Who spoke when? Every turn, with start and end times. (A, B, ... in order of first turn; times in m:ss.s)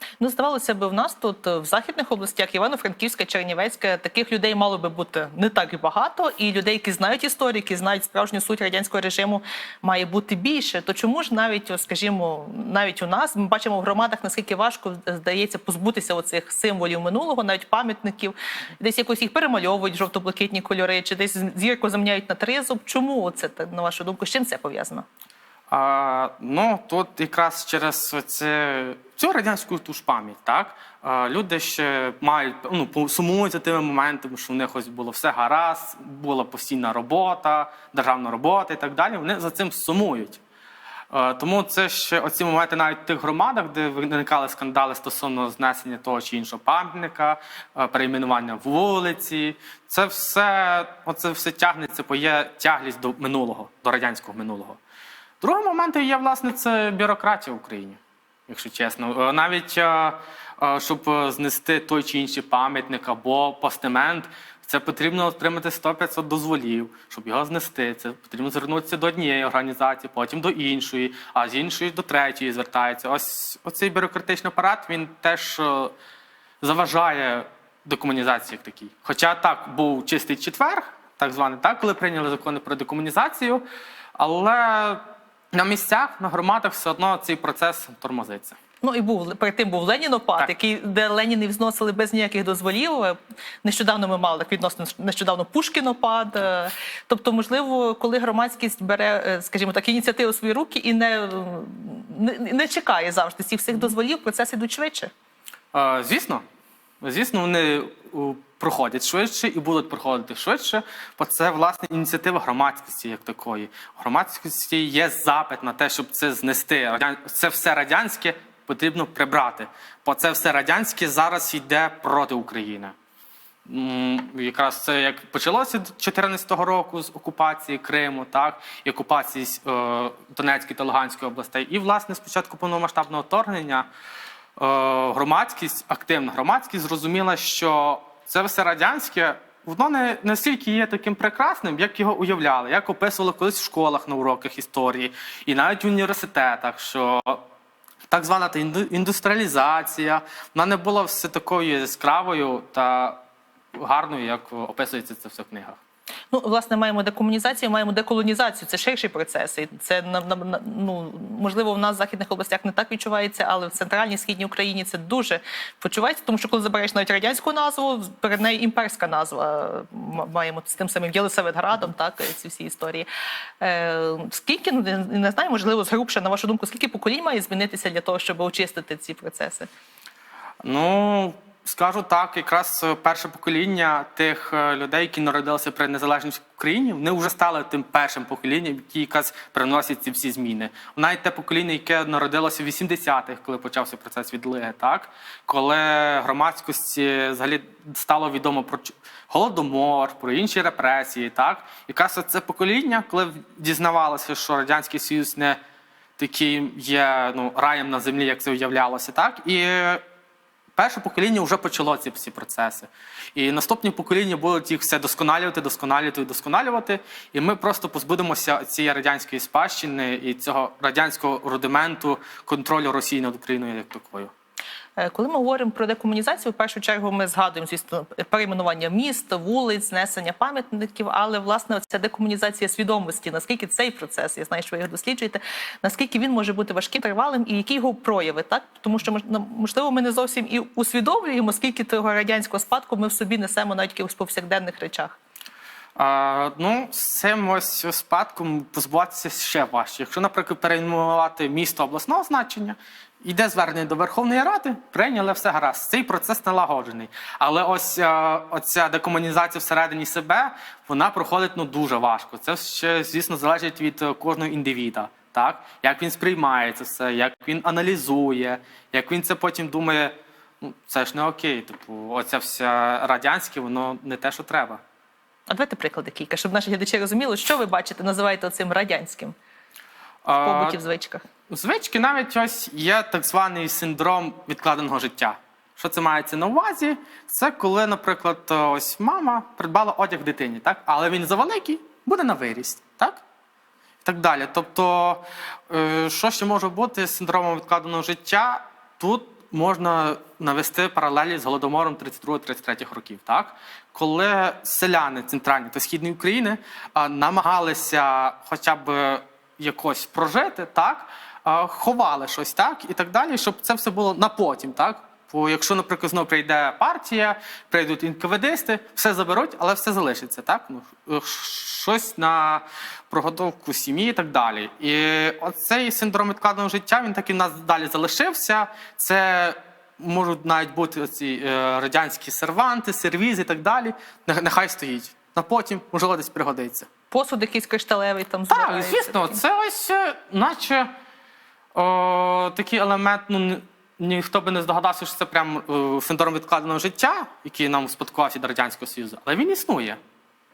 0:00.2-0:25.0 A
0:25.7-0:40.4 B
0:41.1-0:54.8 B
0:55.4-1:15.9 B
1:16.6-1:23.6 B
1:24.2-1:28.6 B
1:28.8-1:45.1 A
1:45.7-1:46.4 B
1:47.0-2:02.9 B
2:03.6-2:13.9 B
2:14.6-2:27.4 B
2:28.1-2:33.2 B
2:33.7-2:35.8 B
2:36.3-2:53.1 A
2:53.6-2:59.7 A
3:00.6-3:25.6 B
3:26.2-3:30.0 B
3:30.8-3:44.3 B
3:45.0-4:05.2 A
4:06.0-4:34.8 B
4:35.5-4:39.3 A
4:40.2-4:40.8 B
4:40.3-4:41.2 A
4:41.5-4:53.2 B
4:54.0-5:36.9 B
5:37.1-5:39.4 A
5:38.5-5:40.9 B
5:41.7-5:50.0 B